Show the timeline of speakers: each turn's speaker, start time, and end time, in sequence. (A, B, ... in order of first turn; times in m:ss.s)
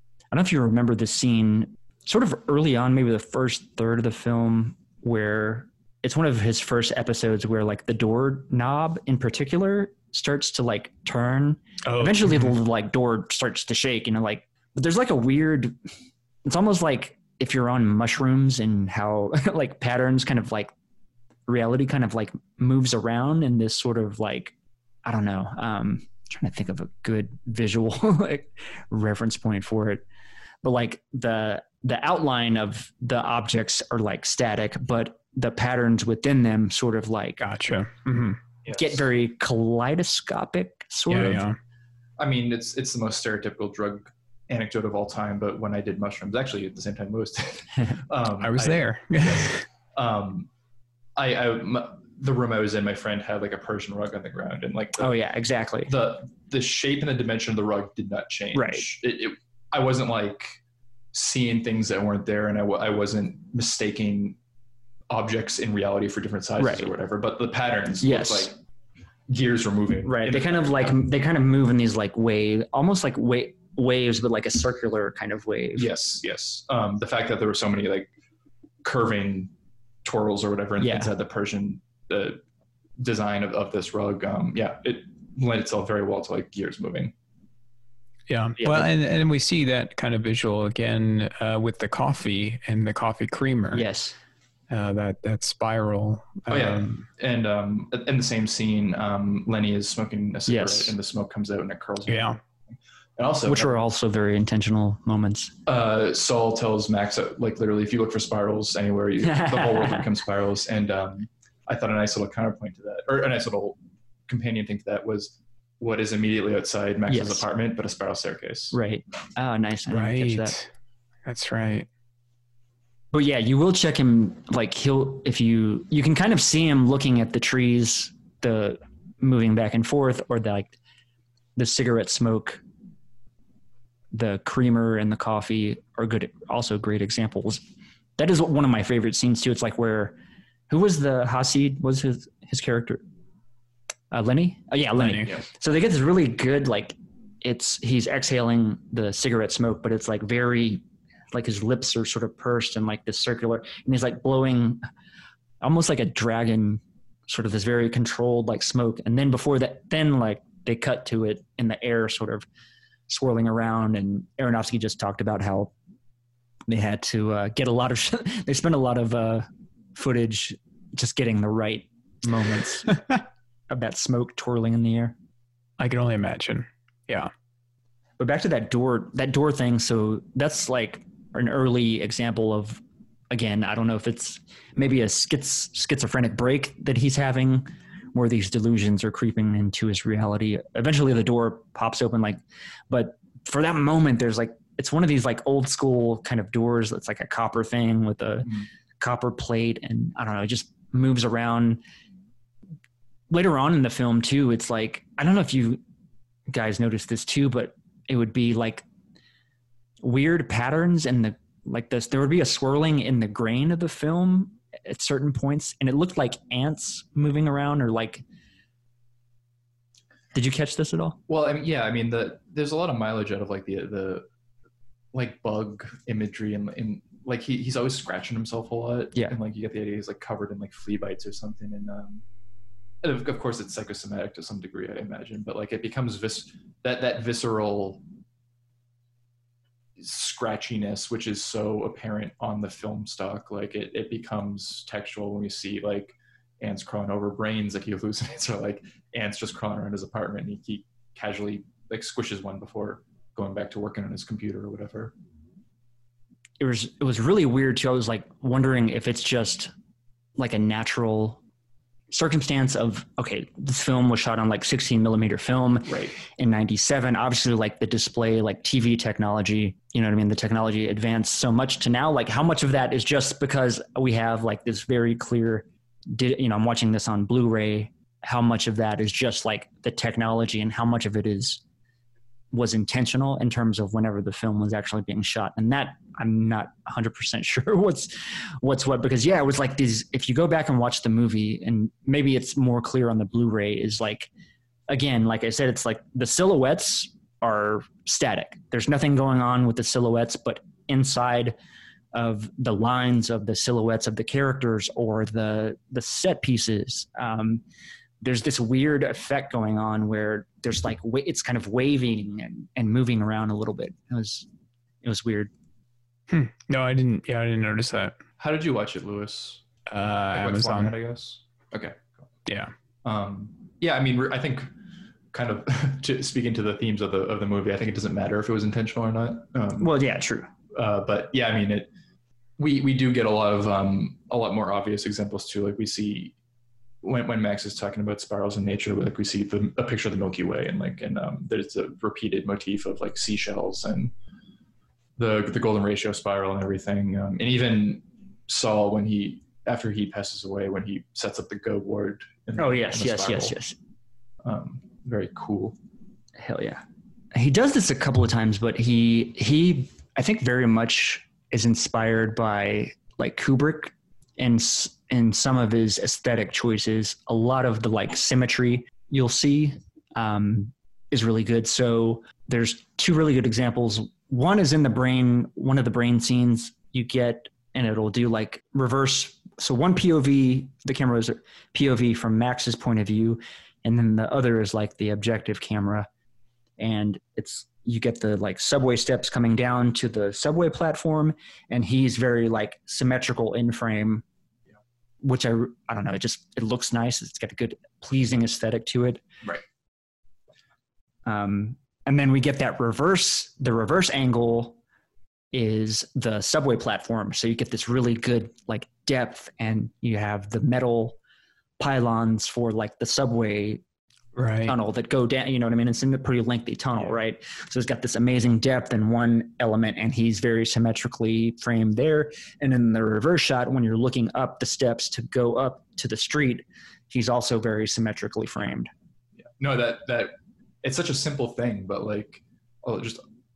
0:00.3-0:15.8 A
0:11.8-0:12.6 B
0:16.4-0:20.7 A
0:21.5-0:24.5 A
0:25.0-0:30.0 A
0:30.6-0:37.4 A
0:37.4-0:38.4 B
0:38.6-0:39.0 C
0:38.7-0:41.5 A
0:41.1-0:41.6 B
0:42.2-0:50.5 C
0:48.4-0:49.6 B
0:51.2-0:55.2 C
0:55.0-0:55.9 A
0:55.8-1:00.6 C
0:58.5-0:58.9 A
1:01.1-1:04.4 C
1:05.1-1:08.6 C
1:06.6-1:06.9 A
1:08.0-1:08.5 A
1:09.3-1:11.0 C
1:10.0-1:15.9 A
1:15.8-1:18.1 C
1:18.8-1:19.5 C
1:20.0-1:22.4 C
1:20.8-1:21.1 A
1:23.0-1:27.1 C
1:28.3-1:33.8 B
1:28.6-1:28.9 A
1:33.7-1:34.2 A
1:34.7-1:37.1 B
1:36.5-1:43.7 C
1:40.5-1:41.0 A
1:42.1-1:42.4 B
1:43.5-1:45.5 A
1:45.7-1:58.8 C
1:49.2-1:50.0 A
1:57.1-1:57.5 A
1:58.7-2:00.6 A
1:59.9-2:00.7 B
2:01.3-2:01.9 B
2:03.1-2:10.8 A
2:11.6-2:12.6 A
2:14.1-2:17.6 A
2:18.2-2:20.2 A
2:20.7-2:23.0 A
2:24.1-2:34.8 A
2:25.0-2:25.3 B
2:35.6-2:42.5 A
2:43.1-2:45.7 A
2:46.7-2:53.2 A
2:53.7-2:55.2 A
2:55.8-2:57.3 B
2:58.2-3:21.8 A
3:23.3-3:25.8 A
3:26.5-3:28.8 A
3:30.0-3:38.2 A
3:40.3-3:41.2 A
3:41.3-3:44.3 C
3:45.1-3:52.2 C
3:53.0-3:58.0 C
4:00.0-4:15.1 C
4:16.6-4:19.7 A
4:20.4-4:21.4 A
4:22.1-4:41.6 A
4:42.5-4:54.3 A
4:54.9-5:01.6 A
5:02.1-5:07.6 A
5:08.2-5:14.5 A
5:15.0-5:15.5 A
5:16.3-5:18.2 B
5:18.4-5:19.6 C
5:19.9-5:20.9 B
5:20.3-5:22.2 C
5:22.5-5:22.7 B
5:23.0-5:24.7 C
5:25.3-5:29.9 C
5:29.8-5:30.5 A
5:30.7-5:31.9 C
5:32.6-5:36.4 C
5:37.0-5:44.1 C
5:45.2-5:53.6 C
5:52.6-5:53.8 A
5:54.4-5:55.8 C
5:56.4-5:56.8 A
5:57.3-6:26.1 A
6:26.8-6:34.2 A
6:35.2-6:39.2 A
6:41.2-6:44.8 A
6:45.5-6:51.2 A
6:51.8-6:53.8 A
6:54.4-6:54.8 B
6:54.7-7:08.9 A
7:09.4-7:13.2 C